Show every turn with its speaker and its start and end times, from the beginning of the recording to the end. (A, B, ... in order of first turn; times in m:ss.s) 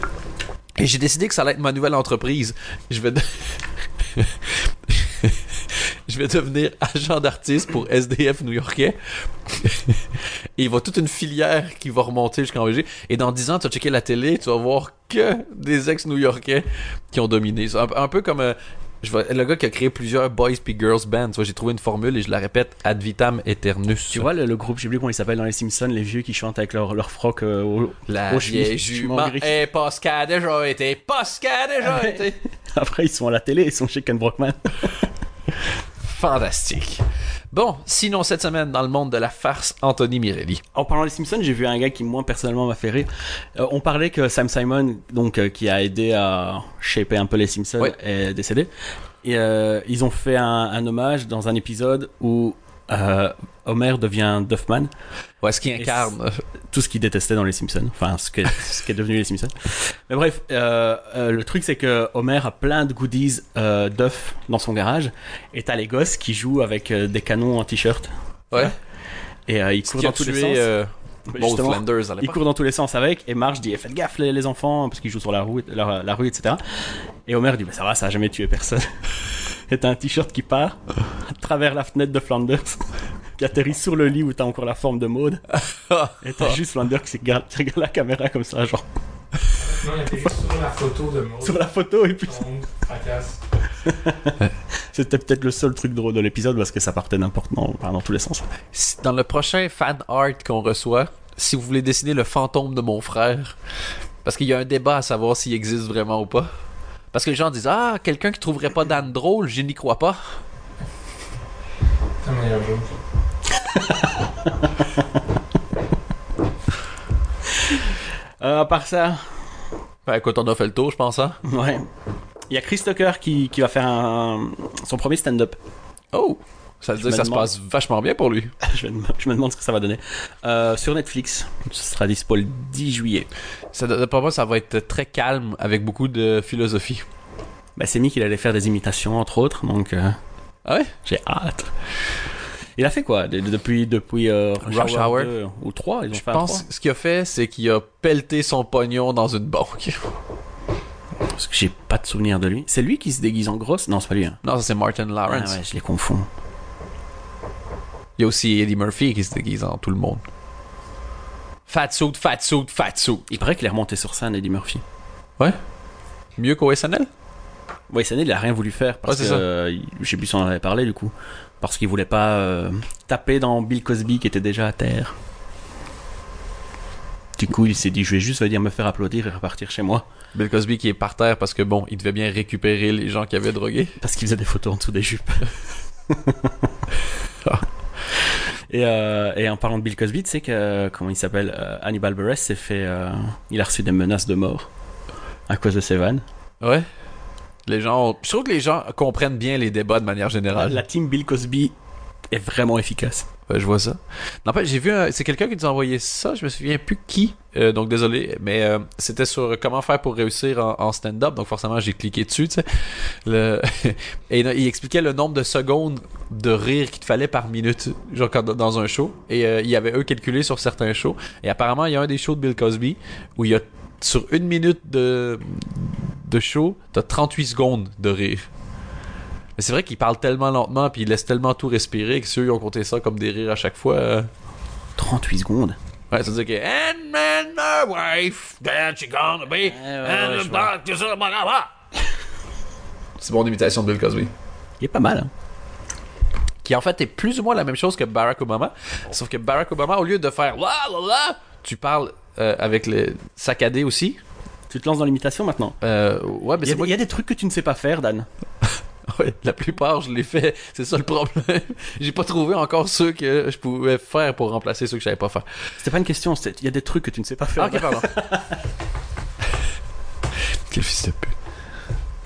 0:00.8-0:24.3 A
0:24.1-0:29.6 B
0:28.1-0:32.4 A
0:31.8-0:35.0 B
0:36.0-0:40.6 A
0:40.8-0:48.7 B
0:49.2-0:54.9 B
0:55.4-0:56.4 A
0:55.8-0:56.1 B
0:56.7-1:08.7 B
1:09.5-1:10.7 B
1:09.8-1:12.4 A
1:11.3-1:16.6 B
1:17.3-1:18.9 B
1:19.7-1:22.9 B
1:23.4-1:25.4 B
1:25.6-1:26.5 A
1:26.2-1:28.8 B
1:29.6-1:31.6 C
1:31.4-1:32.5 B
1:32.3-1:33.4 C
1:33.8-1:34.4 B
1:34.9-1:38.5 B
1:38.7-1:43.6 A
1:44.2-1:46.5 A
1:47.1-1:50.2 A
1:52.2-1:52.9 C
1:53.5-1:54.8 B
1:57.6-1:59.2 B
2:00.0-2:01.4 A
2:01.4-2:01.8 B
2:02.5-2:05.6 B
2:06.1-2:08.6 A
2:07.0-2:07.5 B
2:08.6-2:13.3 B
2:13.7-2:17.0 A
2:17.8-2:20.2 B
2:20.6-2:20.9 A
2:21.0-2:21.7 B
2:22.8-2:26.7 B
2:24.6-2:25.3 A
2:26.1-2:30.0 A
2:31.3-2:34.4 B
2:34.4-2:35.6 A
2:35.3-2:36.3 B
2:38.2-2:40.2 A
2:41.7-2:43.3 A
2:43.3-2:44.8 B
2:46.4-2:47.1 A
2:47.9-2:55.2 B
2:49.1-2:49.4 A
2:57.4-3:00.0 B
3:00.3-3:04.0 A
3:04.0-3:05.5 B
3:06.1-3:06.6 B
3:08.7-3:14.7 B
3:15.5-3:16.2 B
3:17.7-3:20.8 A
3:20.6-3:21.7 B
3:22.3-3:23.3 B
3:23.5-3:48.4 A
3:49.6-3:54.3 A
3:55.0-3:55.8 B
3:56.1-4:01.7 A
3:59.6-4:00.7 B
4:03.2-4:04.3 A
4:04.8-4:05.3 B
4:06.6-4:14.2 A
4:14.7-4:15.8 B
4:15.8-4:17.0 A
4:16.6-4:18.3 B
4:19.1-4:25.5 A
4:25.8-4:28.6 B
4:27.6-4:28.1 A
4:30.7-4:31.3 A